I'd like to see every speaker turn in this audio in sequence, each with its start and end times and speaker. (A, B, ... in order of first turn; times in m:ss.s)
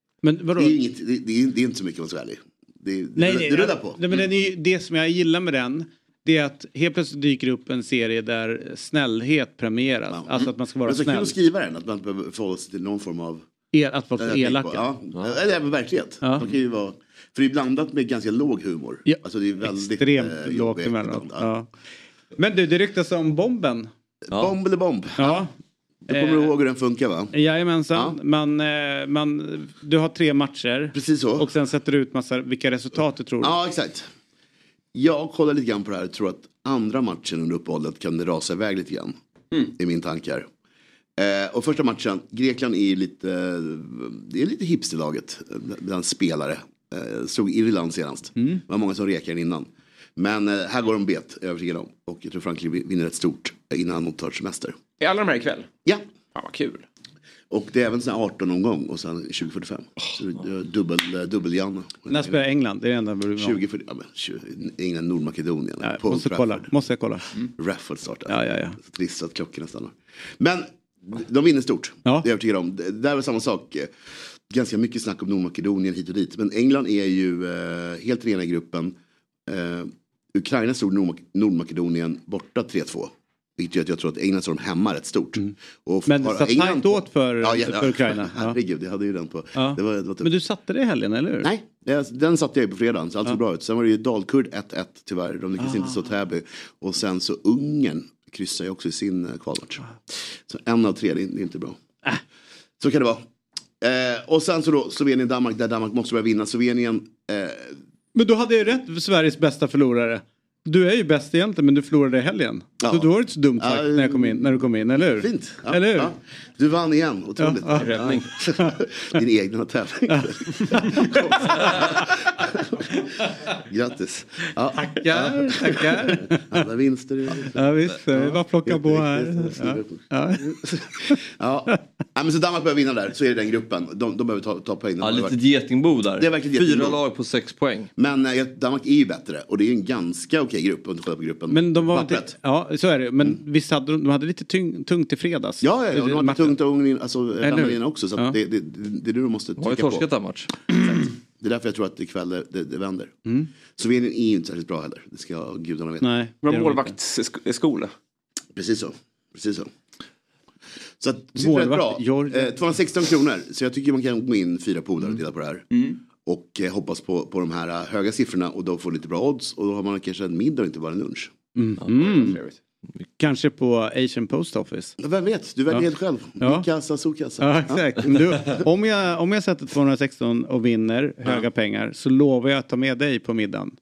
0:00.2-0:00.8 A
0:00.6-0:04.0 B
0:03.2-0:11.4 A
0:10.1-0:13.4 B
0:13.7-0:14.8 A
0:14.2-0:21.5 B
0:19.0-0:21.7 A
0:22.4-0:23.9 A
0:24.3-0:25.4 B
0:25.2-0:25.5 A
0:26.1-0:27.3 B
0:26.1-0:26.5 A
0:27.3-0:33.6 A
0:30.9-0:31.5 B
0:33.4-0:34.1 B
0:34.9-0:39.2 B
0:39.7-0:40.5 B
0:41.2-0:54.8 B
0:48.4-0:48.6 A
0:55.0-0:55.7 C
0:56.4-0:56.8 C
0:57.5-1:02.4 B
1:02.1-1:03.6 A
1:03.4-1:06.7 B
1:05.8-1:07.3 A
1:07.5-1:13.9 B
1:08.3-1:08.8 A
1:14.5-1:18.9 B
1:19.5-1:30.3 B
1:26.1-1:28.6 A
1:29.6-1:31.5 A
1:31.4-1:41.8 B
1:35.6-1:35.9 A
1:42.8-1:43.2 B
1:43.8-1:47.8 B
1:48.2-1:56.1 A
1:52.8-1:54.6 B
1:55.2-2:15.4 B
1:57.4-1:58.0 A
1:57.8-1:58.3 C
2:00.1-2:02.1 A
2:04.8-2:06.6 A
2:07.5-2:11.2 A
2:15.0-2:17.9 D
2:16.2-2:17.0 B
2:18.0-2:22.4 B
2:21.5-2:26.6 A
2:25.6-2:30.1 B
2:27.4-2:28.4 A
2:29.6-2:30.5 D
2:30.6-2:33.2 B
2:33.2-2:33.5 A
2:33.7-2:36.1 B
2:36.0-2:36.9 A
2:36.4-2:37.9 C
2:38.6-2:39.7 B
2:41.0-2:51.3 B
2:41.4-2:42.6 A
2:45.7-2:46.0 C
2:51.6-2:52.4 A
2:52.0-2:52.6 C
2:53.2-2:55.0 A
2:55.0-2:58.2 B
2:56.4-2:56.7 A
2:57.4-3:03.7 A